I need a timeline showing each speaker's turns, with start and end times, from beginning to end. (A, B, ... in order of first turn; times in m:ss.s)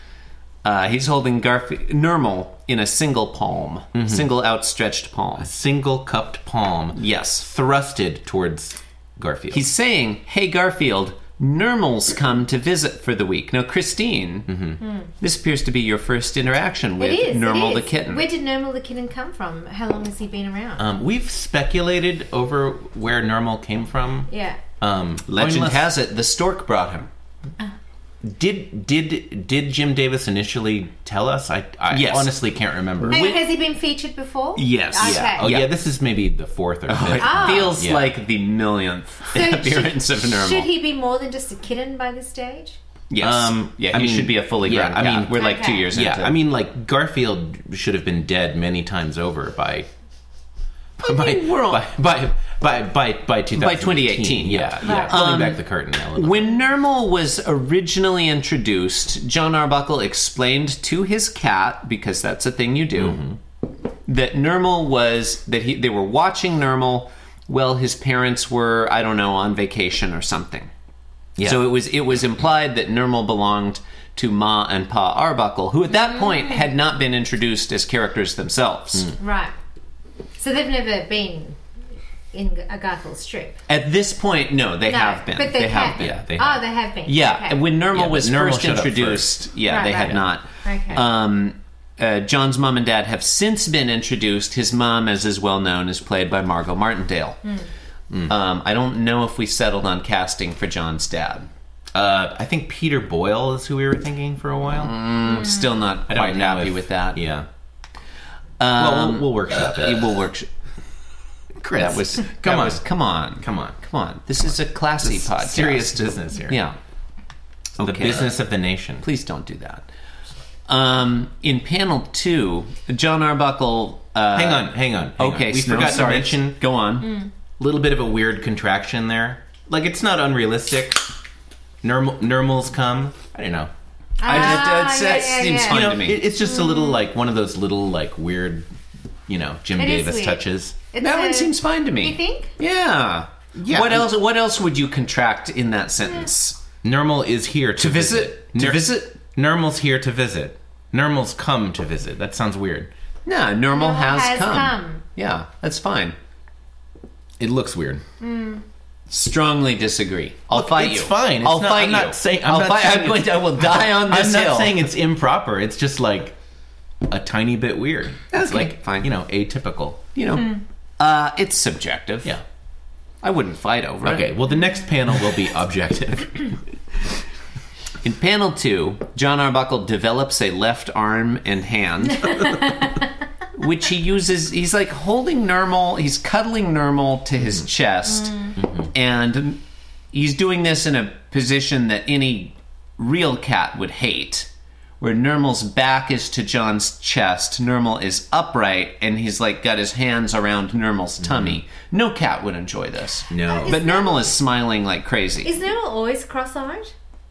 0:00.6-0:05.5 A
0:03.9-0:04.2 B
0:05.4-0:09.6 B
0:06.9-0:07.4 A
0:09.5-0:14.5 A
0:14.5-0:14.8 B
0:14.8-0:15.1 C
0:15.2-0:18.2 A
0:17.0-0:20.8 C
0:20.8-0:24.3 B
0:24.3-0:24.6 C
0:24.8-0:25.9 B
0:25.3-0:27.1 A
0:28.2-0:33.4 B
0:31.9-0:32.3 A
0:33.0-0:33.4 A
0:33.1-0:35.4 C
0:34.6-0:35.7 A
0:35.0-0:38.1 B
0:36.9-0:40.7 A
0:37.2-0:37.7 C
0:39.3-0:42.8 C
0:43.1-0:46.3 A
0:43.2-0:49.9 B
0:45.3-0:45.9 C
0:51.0-0:56.5 B
0:51.0-0:51.9 A
0:53.6-0:55.6 A
0:54.8-0:55.5 C
0:56.1-1:03.2 A
1:03.0-1:03.4 B
1:04.1-1:10.7 A
1:11.4-1:11.6 B
1:11.4-1:19.1 A
1:19.2-1:19.5 C
1:20.4-1:21.6 C
1:22.3-1:23.6 C
1:23.7-1:26.2 A
1:24.9-1:27.6 C
1:25.9-1:26.6 B
1:27.1-1:37.4 A
1:27.9-1:30.2 B
1:29.6-1:31.0 C
1:37.4-1:37.7 C
1:38.3-1:41.5 A
1:41.9-1:44.9 B
1:44.7-1:47.3 A
1:46.1-1:47.5 B
1:48.6-1:50.5 A
1:48.8-1:50.2 B
1:51.6-1:52.8 B
1:51.8-1:56.8 A
1:53.4-1:53.8 B
1:55.0-1:56.6 B
1:57.8-1:58.3 A
1:57.8-1:59.0 B
1:59.0-1:59.9 A
2:00.7-2:07.1 A
2:04.3-2:06.6 B
2:07.0-2:07.3 C
2:07.6-2:11.1 B
2:11.8-2:13.7 B
2:14.2-2:17.0 C
2:14.2-2:16.2 A
2:14.2-2:14.6 B
2:15.6-2:18.7 B
2:19.3-2:20.8 B
2:19.8-2:22.5 C
2:21.0-2:26.6 A
2:23.6-2:24.1 B
2:26.8-2:32.9 B
2:27.8-2:29.2 A
2:33.2-2:36.1 A
2:33.7-2:35.0 C
2:37.4-2:38.0 B
2:38.2-2:38.6 C
2:39.1-2:44.8 A
2:40.5-2:46.3 B
2:47.1-2:50.0 B
2:48.3-2:49.1 A
2:50.1-2:52.4 A
2:53.2-2:54.3 A
2:54.0-2:56.6 B
2:58.0-3:02.4 A
3:02.3-3:02.9 C
3:03.6-3:09.6 A
3:08.6-3:08.9 B
3:10.1-3:14.5 A
3:15.0-3:25.5 A
3:21.2-3:21.6 B
3:23.3-3:23.8 B
3:23.5-3:24.3 C
3:25.4-3:26.9 C